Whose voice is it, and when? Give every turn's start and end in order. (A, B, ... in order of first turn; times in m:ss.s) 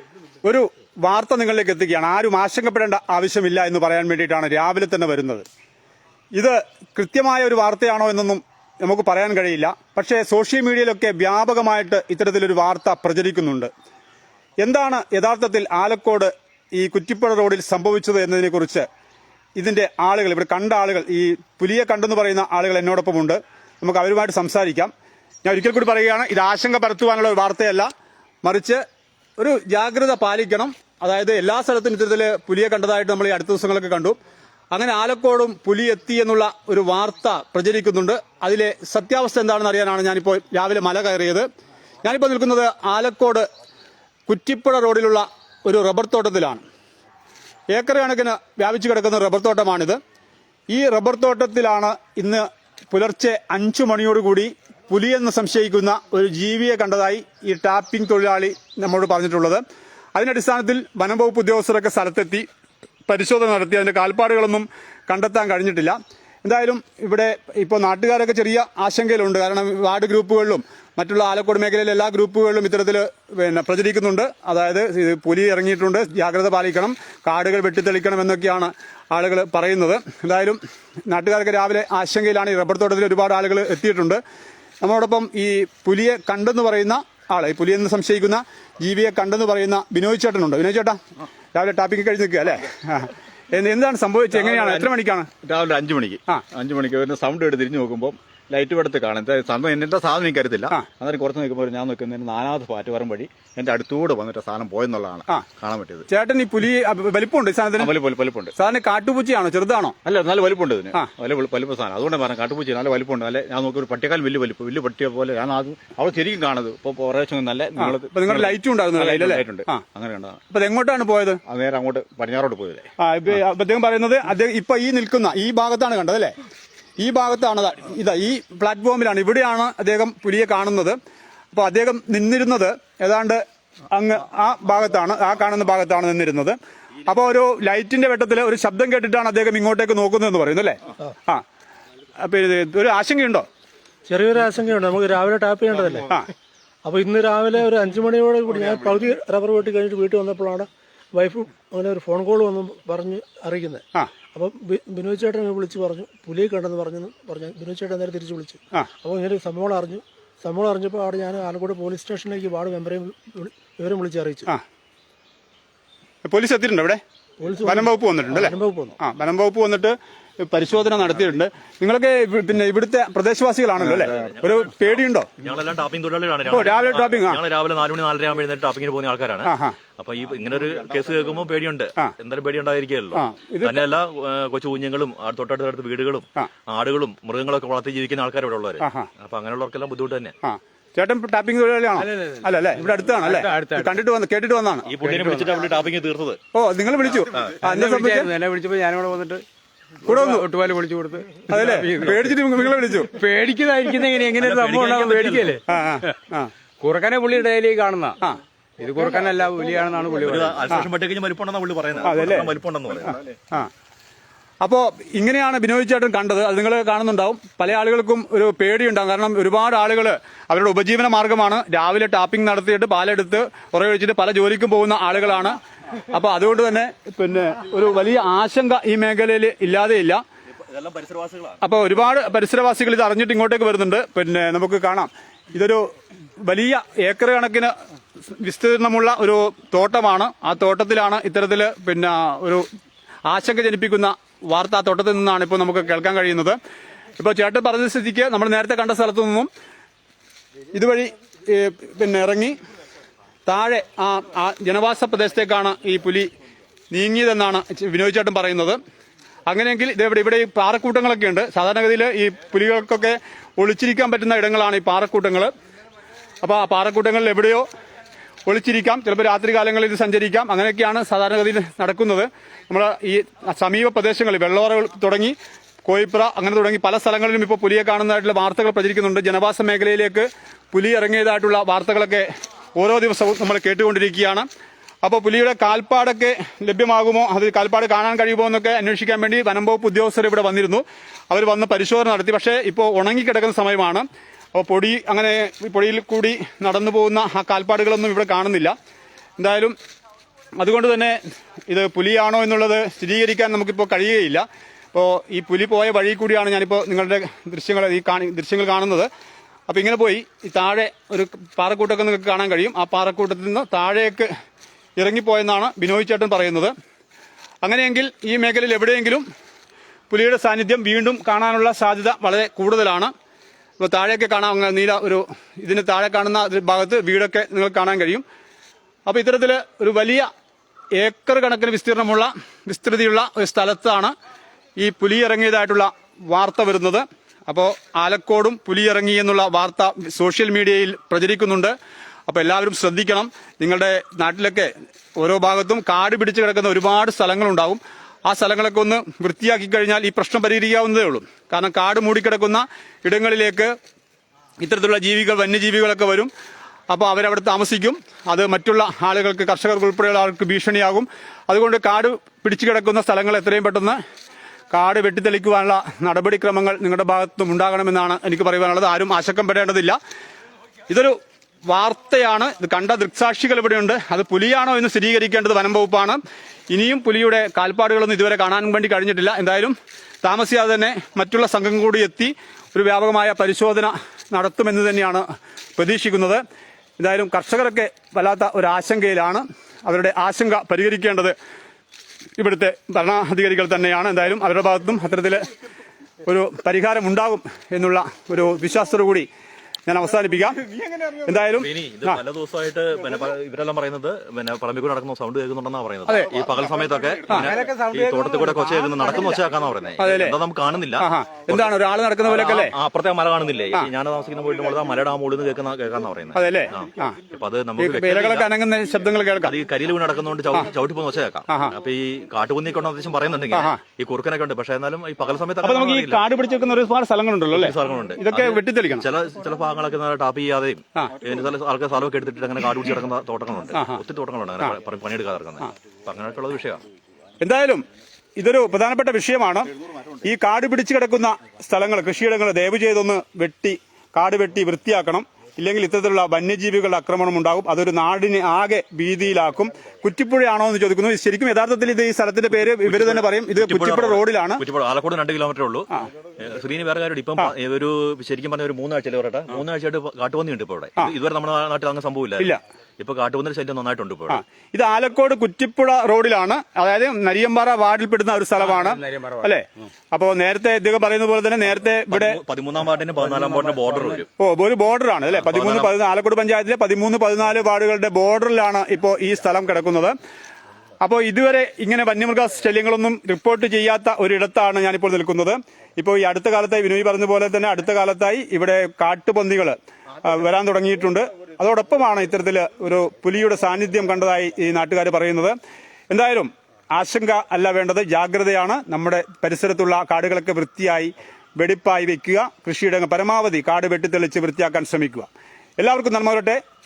0:00.4-0:05.5 A
0:06.3-0:13.7 A
0:14.6-0:18.9 A
0:19.6-0:24.9 A
0:25.4-0:27.9 A
0:28.4-0:28.8 A
0:29.4-0:34.2 A
0:34.7-0:41.5 A
0:42.0-0:43.4 A
0:44.3-0:46.6 A
0:47.7-0:50.0 A
0:50.7-0:59.6 A
1:00.2-1:02.5 A
1:03.1-1:24.2 A
1:24.8-1:31.0 A
1:31.5-1:35.3 A
1:34.3-1:46.1 B
1:46.1-1:47.9 A
1:47.8-1:48.5 B
1:48.6-1:50.0 A
1:50.0-2:00.4 B
1:57.8-1:59.8 A
2:00.5-2:01.4 A
2:01.5-2:02.9 B
2:03.0-2:06.4 A
2:07.0-2:11.0 A
2:11.5-2:21.4 A
2:22.2-2:23.5 A
2:24.1-2:26.1 C
2:26.8-2:33.8 C
2:34.3-2:44.5 C
2:46.2-2:47.0 A
2:47.4-2:49.0 C
2:47.6-2:55.3 A
2:53.8-2:54.0 B
2:54.0-3:10.3 D
2:56.5-2:57.4 A
2:59.4-2:59.8 A
3:03.1-3:03.8 A
3:08.8-3:09.1 A
3:10.4-3:14.9 A
3:12.0-3:14.0 E
3:14.9-3:16.4 D
3:15.0-3:15.5 E
3:16.5-3:18.3 A
3:17.6-3:19.4 E
3:20.0-3:22.4 E
3:20.1-3:20.5 A
3:21.5-3:23.2 A
3:23.1-3:25.6 E
3:24.4-3:25.6 D
3:25.7-3:26.5 A
3:26.8-3:28.2 E
3:28.8-3:30.7 E
3:30.2-3:33.2 D
3:32.0-3:32.5 A
3:34.6-3:45.6 A
3:46.1-3:50.2 A
3:50.7-3:51.6 D
3:51.6-3:55.8 A
3:56.4-3:57.7 A
3:58.3-4:02.6 A
4:03.3-4:06.6 A
4:07.2-4:09.5 A
4:10.7-4:12.5 A
4:13.5-4:16.3 A
4:16.9-4:18.8 A
4:19.5-4:25.5 A
4:26.4-4:27.7 A
4:28.5-4:44.5 A
4:45.0-4:58.8 A
4:59.4-4:59.8 A
5:00.6-5:09.1 A
5:09.7-5:14.3 A
5:15.0-5:16.7 A
5:17.6-5:19.2 A
5:20.1-5:23.1 A
5:23.8-5:28.2 A
5:29.1-5:30.3 A
5:31.0-5:34.1 A
5:34.8-5:41.7 A
5:42.3-5:53.7 A
5:54.6-5:56.3 A
5:56.9-6:04.0 A
6:04.7-6:10.0 A
6:10.9-6:11.2 A
6:11.7-6:25.2 A
6:25.8-6:26.4 A
6:27.0-6:31.4 A
6:32.4-6:35.4 A
6:36.2-6:39.3 A
6:39.9-6:40.6 A
6:41.2-6:42.2 A
6:41.6-6:58.5 D
6:47.4-6:49.2 E
6:50.0-6:50.4 A
6:51.0-6:52.7 A
6:56.4-6:57.2 A
6:57.8-6:59.6 A
6:59.4-7:06.2 D
7:03.5-7:03.8 A
7:05.6-7:09.1 A
7:07.5-7:16.8 D
7:13.7-7:14.0 A
7:17.4-7:17.8 A
7:18.4-7:19.7 A
7:20.2-7:34.6 A
7:32.8-7:44.4 D
7:44.3-7:52.4 A
7:48.6-7:49.5 E
7:52.1-7:54.3 D
7:54.4-8:00.1 A
7:55.3-7:56.0 D
8:01.0-8:15.6 A
8:16.1-8:26.6 A